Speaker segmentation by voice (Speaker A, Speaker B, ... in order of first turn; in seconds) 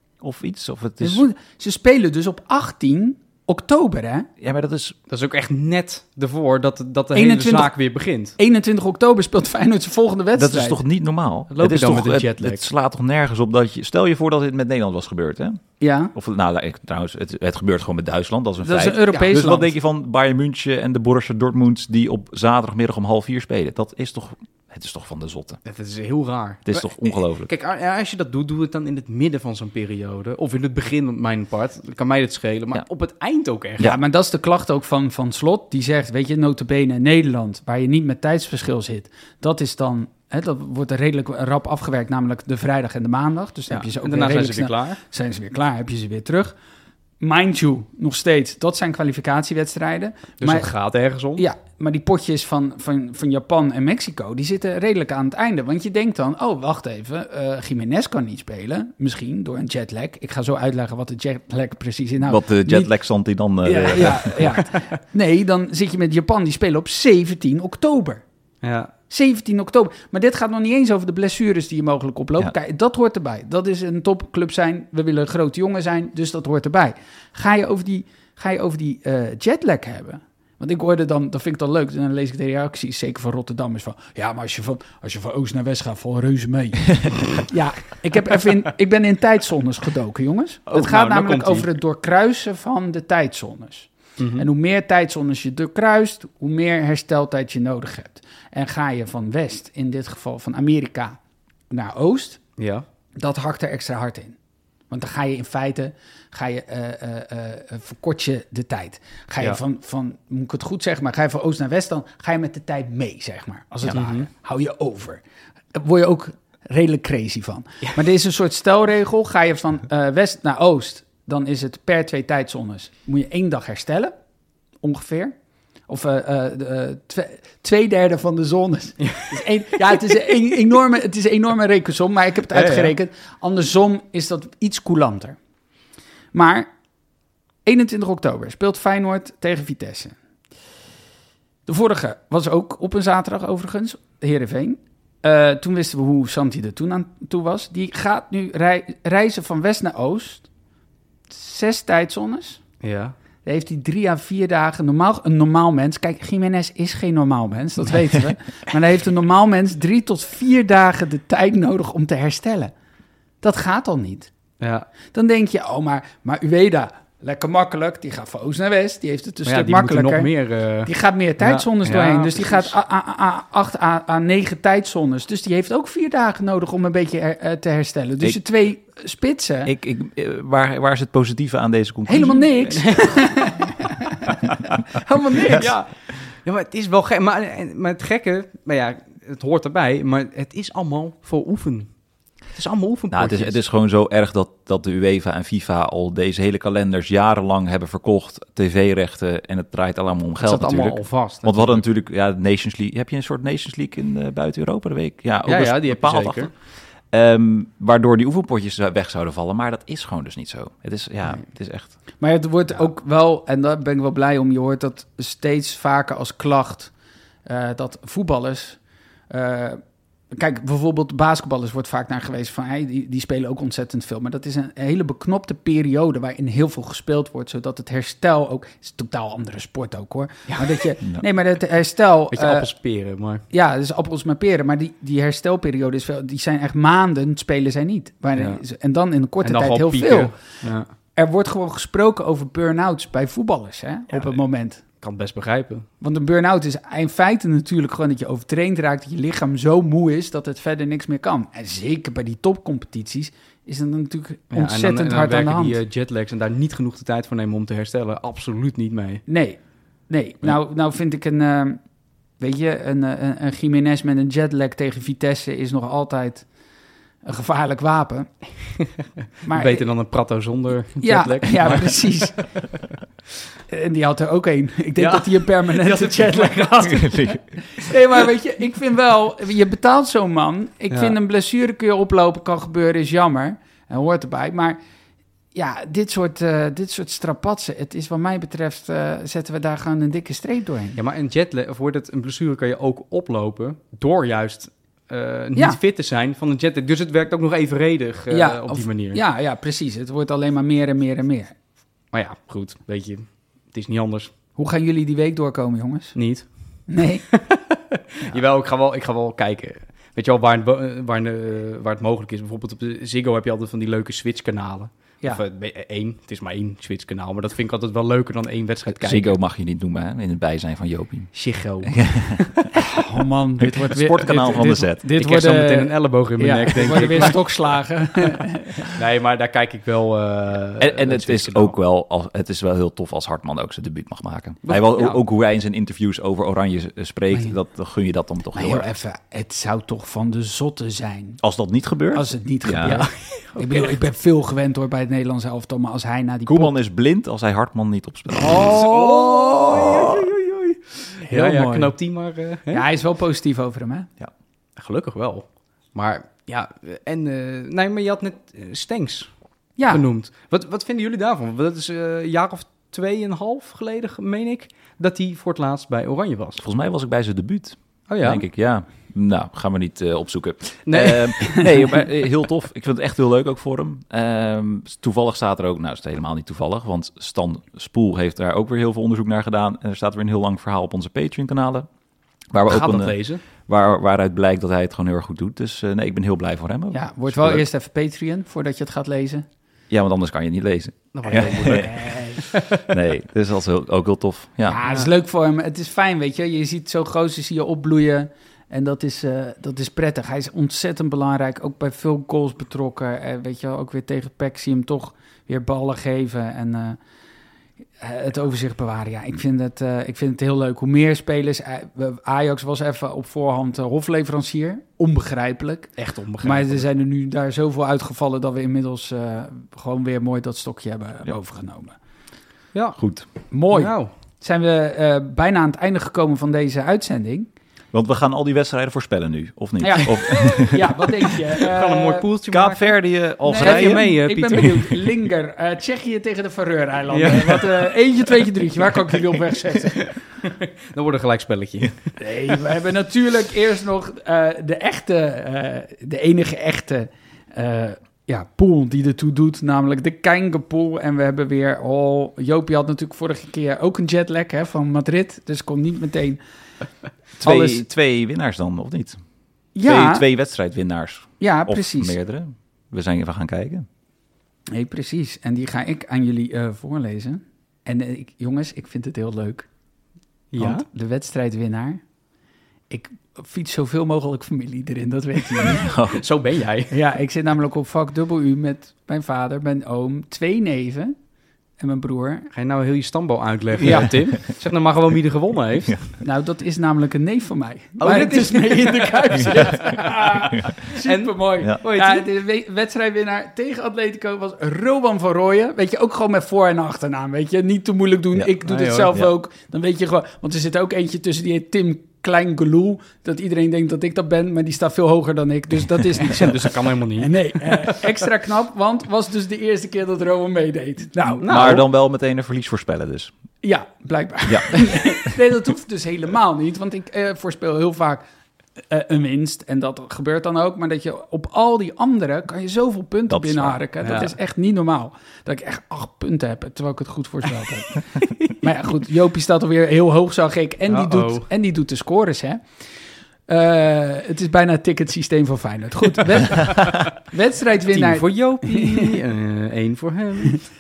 Speaker A: 0.2-1.2, 4.4-5.0, 10.3-25.6, 26.7-27.5, 62.2-64.5, 179.7-183.4, 193.1-212.2, 276.9-277.4, 318.9-322.6, 323.6-325.0, 330.8-338.9, 341.4-343.1, 346.5-348.7, 366.6-381.9, 382.5-387.6, 389.9-392.1, 392.9-394.8, 423.0-423.3, 427.9-431.0, 432.5-434.7, 457.4-459.2, 459.8-463.9, 475.8-476.2, 483.9-484.2, 511.5-513.3, 514.5-515.3, 523.3-523.8
Speaker B: 1.0-4.3, 7.1-7.8, 8.4-10.8, 15.8-16.1, 18.6-19.7, 33.8-46.6, 47.2-50.7, 51.4-62.9, 63.6-68.2, 69.1-101.2, 101.7-102.4, 103.2-104.4, 104.9-115.2, 115.7-124.1, 124.8-125.3, 125.9-135.4, 136.3-136.7, 137.6-140.2, 141.7-150.5, 151.3-152.7, 153.4-162.7, 163.4-164.3, 165.1-170.3, 170.8-179.7, 182.1-183.7, 184.9-185.8, 212.2-216.9, 217.4-232.9, 233.5-244.8, 246.0-255.8, 259.3-266.5, 267.2-268.8, 269.4-269.9, 271.0-272.7, 273.7-284.8, 285.5-291.0, 298.3-301.5, 304.6-306.2, 306.9-307.2, 323.0-328.9, 337.3-337.6, 338.5-341.4, 342.1-346.7, 348.4-350.1, 351.2-352.0, 352.7-354.1, 359.8-360.0, 386.9-389.4, 391.3-392.4, 394.7-407.0, 408.0-422.0, 423.5-427.5, 429.8-432.3, 433.4-440.2, 442.2-456.4, 457.4-457.8, 459.7-460.2, 461.4-462.1, 464.7-469.7, 470.6-472.0, 472.9-475.9, 476.9-481.1, 481.8-482.5, 483.8-484.1, 486.2-511.8, 513.6-518.2, 518.8-532.6, 533.5-539.1
Speaker C: 5.1-8.3, 11.5-12.6, 25.6-33.9, 43.7-45.0, 50.4-51.4, 64.5-64.8, 68.6-68.9, 90.7-91.7, 94.2-94.5, 102.6-102.8, 113.9-114.3, 129.0-129.4, 132.5-132.9, 152.8-153.1, 164.6-164.9, 169.4-172.7, 182.8-183.2, 185.4-193.6, 200.4-201.8, 205.4-206.5, 232.3-233.4, 238.3-238.6, 239.4-240.9, 244.1-245.9, 254.5-259.2, 269.5-272.6, 275.0-277.1, 290.9-299.2, 302.1-304.3, 306.1-307.8, 308.3-319.4, 321.3-322.6, 325.1-327.6, 328.9-331.7, 334.6-335.2, 342.8-344.0, 348.4-352.9, 354.8-366.6, 368.1-368.4, 370.9-371.8, 382.7-383.4, 391.1-392.6, 394.9-395.1, 416.0-416.9, 422.7-424.1, 431.6-435.0, 437.1-437.9, 440.4-442.2, 470.5-470.8, 476.1-476.9, 482.5-486.1, 488.0-492.2, 498.6-499.1, 506.2-508.0, 511.4-511.8, 524.0-524.3, 530.9-531.5, 537.9-540.6